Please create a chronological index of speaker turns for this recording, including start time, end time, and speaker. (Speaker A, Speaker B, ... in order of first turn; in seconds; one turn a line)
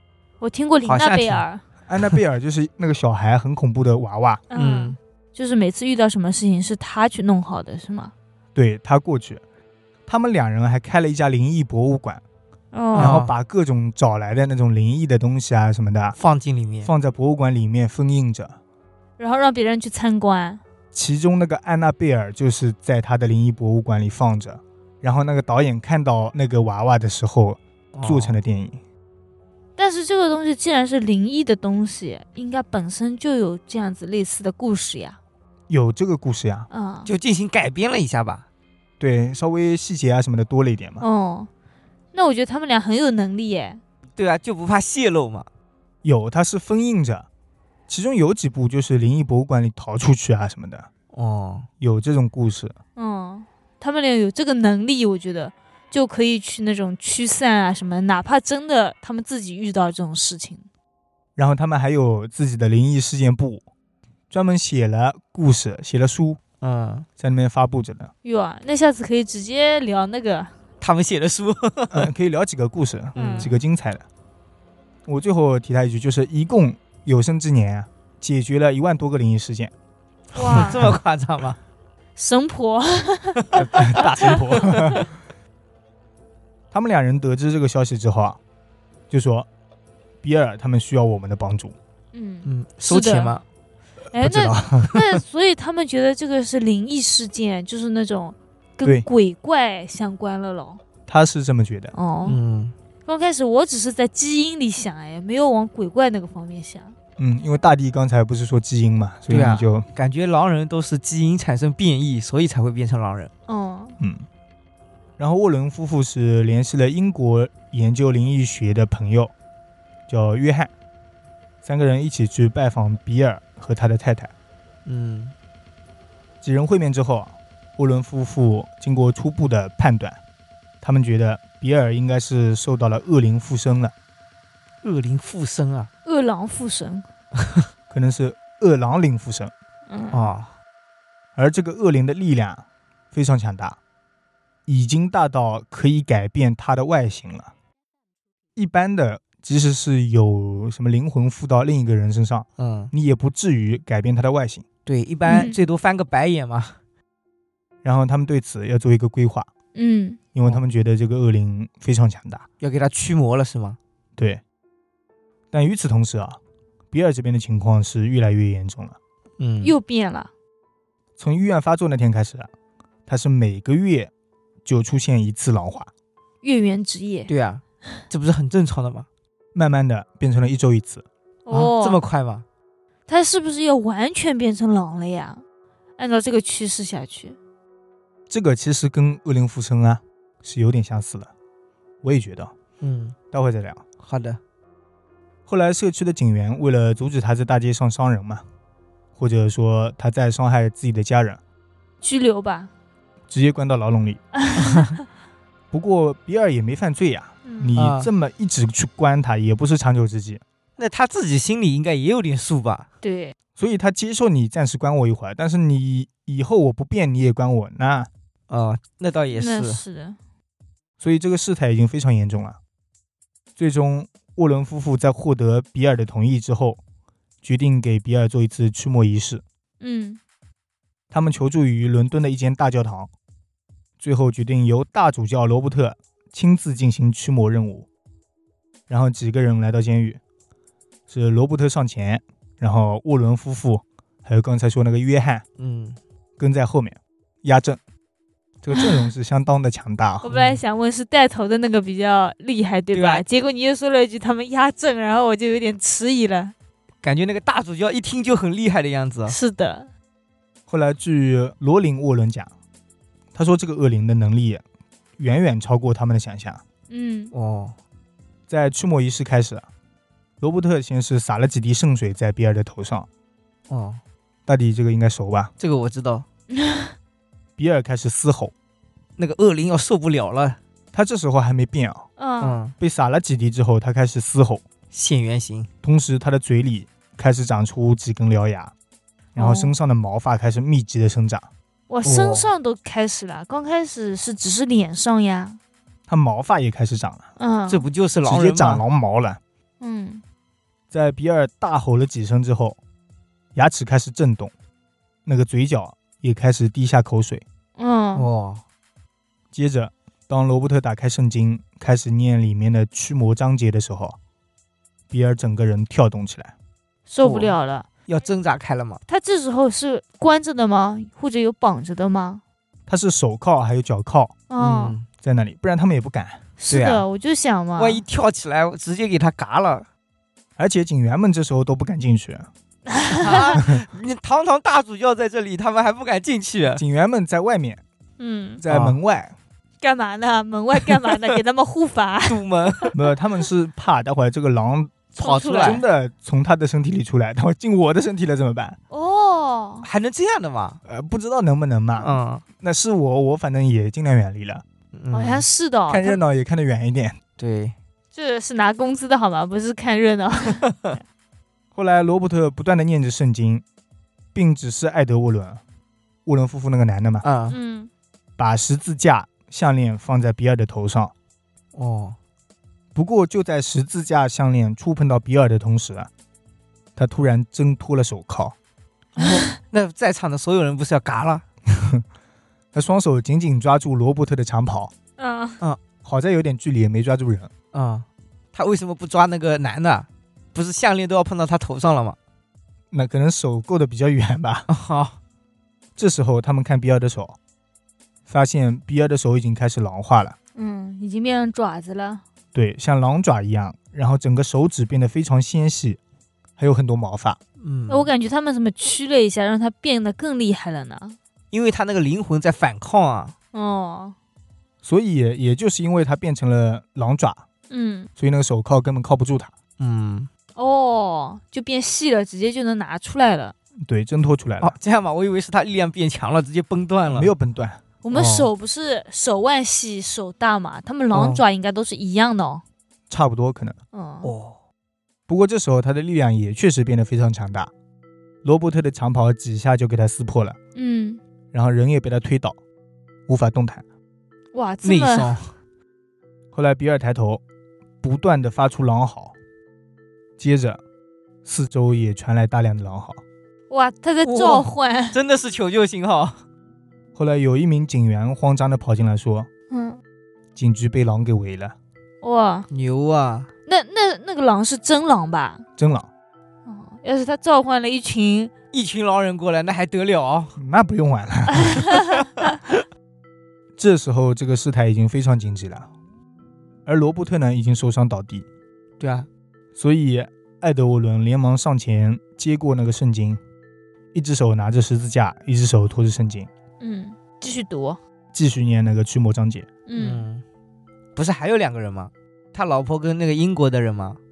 Speaker A: 0.4-1.6
Speaker B: 0.8-1.4
Speaker C: 1.9-4.4
Speaker A: 4.5-8.1
Speaker B: 4.5-5.0
Speaker C: 8.5-9.4
Speaker C: 10.1-12.2
Speaker A: 12.7-13.2
Speaker B: 12.9-13.3
Speaker C: 12.9-16.2
Speaker B: 16.2-16.9
Speaker C: 16.8-18.6
Speaker A: 19.2-20.6
Speaker C: 20.9-28.8
Speaker B: 27.9-28.4
Speaker A: 29.8-35.2
Speaker C: 35.7-36.7
Speaker A: 36.7-37.1
Speaker B: 37.0-38.5
Speaker C: 39.0-41.0
Speaker A: 41.0-41.5
Speaker A: 42.1-43.8
Speaker B: 44.1-45.5
Speaker C: 46.0-47.3
Speaker C: 47.9-50.9
Speaker B: 51.1-51.7
Speaker C: 51.8-52.8
Speaker A: 53.0-60.6
Speaker C: 61.4-63.6
Speaker C: 64.3-66.4
Speaker B: 66.6-67.0
Speaker C: 67.2-68.1
Speaker A: 68.2-70.5
Speaker B: 70.8-72.1
Speaker C: 71.9-74.0
Speaker A: 73.2-73.5
Speaker B: 73.2-73.5
Speaker C: 75.0-79.7
Speaker A: 80.3-80.9
Speaker B: 80.3-81.6
Speaker A: 82.2-84.8
Speaker C: 83.5-85.1
Speaker C: 86.7-88.4
Speaker C: 89.1-89.5
Speaker C: 90.2-91.7
Speaker A: 92.1-93.3
Speaker B: 92.4-93.4
Speaker A: 94.1-100.8
Speaker C: 94.1-95.0
Speaker C: 101.1-101.9
Speaker A: 101.9-102.4
Speaker B: 102.2-102.7
Speaker A: 103.0-106.9
Speaker C: 107.2-109.9
Speaker B: 109.3-113.3
Speaker A: 113.5-114.0
Speaker C: 114.0-114.2
Speaker C: 115.2-119.3
Speaker C: 120.1-120.7
Speaker C: 121.6-124.3
Speaker B: 124.8-125.3
Speaker C: 126.4-130.2
Speaker C: 130.8-133.9
Speaker B: 134.8-135.9
Speaker A: 136.0-137.1
Speaker C: 137.9-139.5
Speaker A: 139.9-140.3
Speaker B: 140.1-140.5
Speaker C: 141.3-143.8
Speaker C: 144.7-147.5
Speaker C: 148.6-154.6
Speaker B: 152.6-152.9
Speaker B: 154.8-156.8
Speaker A: 155.2-155.6
Speaker C: 157.8-159.5
Speaker A: 159.7-160.2
Speaker C: 160.3-162.5
Speaker B: 162.6-163.8
Speaker C: 165.5-166.4
Speaker C: 166.9-169.0
Speaker B: 169.4-169.7
Speaker A: 169.6-170.3
Speaker C: 171.2-172.5
Speaker C: 173.1-174.1
Speaker C: 174.6-175.9
Speaker A: 176.4-177.3
Speaker B: 177.3-179.1
Speaker C: 179.5-181.0
Speaker A: 181.4-182.0
Speaker B: 181.5-182.4
Speaker A: 183.1-185.4
Speaker A: 186.0-187.4
Speaker C: 188.3-191.3
Speaker C: 192.0-192.5
Speaker B: 192.8-193.2
Speaker C: 193.3-193.8
Speaker B: 194.0-194.4
Speaker C: 195.5-198.4
Speaker C: 199.2-201.4
Speaker A: 202.0-202.7
Speaker C: 203.3-204.2
Speaker A: 204.4-204.8
Speaker B: 204.6-204.9
Speaker C: 205.7-210.4
Speaker A: 207.4-207.7
Speaker B: 207.8-208.1
Speaker B: 210.8-212.9
Speaker A: 213.0-213.3
Speaker C: 213.6-218.1
Speaker B: 218.5-219.8
Speaker A: 219.3-220.2
Speaker C: 221.0-222.6
Speaker C: 223.6-226.8
Speaker C: 227.4-229.4
Speaker A: 229.8-230.2
Speaker C: 231.1-233.1
Speaker C: 234.0-237.9
Speaker C: 238.9-240.2
Speaker C: 241.1-245.4
Speaker B: 245.6-246.0
Speaker C: 246.4-247.8
Speaker C: 248.6-250.3
Speaker A: 250.2-256.5
Speaker B: 250.3-250.6
Speaker B: 252.9-253.2
Speaker B: 257.0-259.4
Speaker A: 259.3-259.9
Speaker C: 260.7-262.5
Speaker C: 263.3-264.6
Speaker C: 265.2-266.6
Speaker A: 266.9-267.3
Speaker B: 267.3-267.8
Speaker C: 268.5-269.6
Speaker C: 270.4-273.1
Speaker B: 273.7-274.0
Speaker C: 274.5-275.5
Speaker B: 275.6-276.2
Speaker A: 276.5-276.9
Speaker C: 277.6-278.5
Speaker B: 279.2-280.6
Speaker C: 280.9-282.1
Speaker A: 282.2-282.6
Speaker B: 282.4-282.7
Speaker C: 282.8-284.6
Speaker B: 284.9-285.7
Speaker C: 285.8-288.7
Speaker C: 289.3-291.5
Speaker A: 289.4-289.7
Speaker A: 291.9-295.6
Speaker B: 292.0-292.5
Speaker C: 296.1-297.2
Speaker A: 297.4-297.9
Speaker B: 297.7-298.8
Speaker C: 298.2-299.4
Speaker A: 299.8-300.2
Speaker C: 300.9-302.8
Speaker C: 303.5-304.5
Speaker C: 305.2-307.4
Speaker A: 307.8-308.3
Speaker B: 308.1-308.6
Speaker C: 309.5-314.2
Speaker C: 315.1-316.5
Speaker A: 317.1-317.9
Speaker B: 317.2-317.5
Speaker B: 318.1-319.0
Speaker A: 319.1-322.4
Speaker C: 322.9-324.3
Speaker A: 324.5-325.0
Speaker B: 324.6-325.1
Speaker C: 325.2-326.4
Speaker A: 326.6-328.0
Speaker B: 326.7-327.0
Speaker B: 327.8-329.9
Speaker C: 330.6-332.5
Speaker A: 332.9-333.6
Speaker B: 333.2-336.8
Speaker C: 333.5-333.8
Speaker C: 336.7-337.8
Speaker A: 338.2-338.6
Speaker C: 338.6-339.3
Speaker B: 338.7-339.0
Speaker A: 339.8-342.9
Speaker B: 342.3-342.9
Speaker C: 342.9-348.8
Speaker A: 345.2-345.8
Speaker B: 345.2-345.8
Speaker A: 348.9-349.9
Speaker B: 349.8-350.8
Speaker C: 350.8-354.6
Speaker B: 352.0-352.4
Speaker B: 354.9-355.4
Speaker A: 355.1-356.2
Speaker C: 355.9-357.2
Speaker B: 357.4-357.7
Speaker A: 358.1-360.6
Speaker C: 361.7-363.6
Speaker C: 364.3-365.6
Speaker C: 366.2-367.2
Speaker B: 367.2-367.6
Speaker A: 367.5-367.9
Speaker C: 368.4-371.1
Speaker B: 371.7-372.2
Speaker C: 372.9-376.1
Speaker C: 376.9-378.5
Speaker B: 379.2-381.4
Speaker C: 381.7-382.0
Speaker C: 382.7-384.9
Speaker A: 385.2-385.6
Speaker C: 386.0-387.5
Speaker B: 387.7-392.2
Speaker C: 392.9-394.7
Speaker B: 394.7-395.2
Speaker C: 395.9-397.4
Speaker C: 398.3-400.4
Speaker A: 400.5-402.2
Speaker C: 402.5-406.0
Speaker C: 406.6-407.4
Speaker B: 407.6-408.1
Speaker A: 407.9-411.2
Speaker B: 411.5-413.3
Speaker A: 413.5-414.1
Speaker C: 414.8-417.4
Speaker A: 417.7-418.1
Speaker C: 418.2-419.5
Speaker B: 419.8-420.3
Speaker A: 420.6-423.5
Speaker C: 423.8-424.8
Speaker B: 424.6-427.3
Speaker C: 427.1-427.8
Speaker A: 428.0-432.6
Speaker B: 428.1-428.5
Speaker B: 431.1-431.4
Speaker C: 433.1-433.8
Speaker A: 433.9-434.3
Speaker B: 434.2-434.6
Speaker C: 435.3-437.7
Speaker C: 438.4-440.6
Speaker A: 440.7-441.2
Speaker C: 441.5-442.6
Speaker C: 443.3-443.8
Speaker A: 444.5-445.4
Speaker B: 444.8-445.5
Speaker C: 446.5-447.4
Speaker C: 448.0-449.3
Speaker C: 450.4-450.8
Speaker C: 451.4-453.2
Speaker A: 453.7-455.2
Speaker B: 454.2-456.4
Speaker C: 457.1-459.5
Speaker A: 459.7-460.0
Speaker C: 460.6-461.7
Speaker A: 462.2-462.7
Speaker B: 462.7-463.5
Speaker A: 463.6-465.6
Speaker C: 465.8-466.1
Speaker A: 466.6-468.5
Speaker B: 468.7-470.5
Speaker C: 470.6-471.8
Speaker A: 471.7-472.1
Speaker C: 473.8-475.9
Speaker C: 476.9-478.4
Speaker B: 479.0-479.3
Speaker C: 479.8-483.4
Speaker C: 484.1-486.5
Speaker A: 486.8-488.0
Speaker C: 488.3-489.7
Speaker A: 489.9-490.3
Speaker B: 489.9-490.4
Speaker B: 491.1-494.2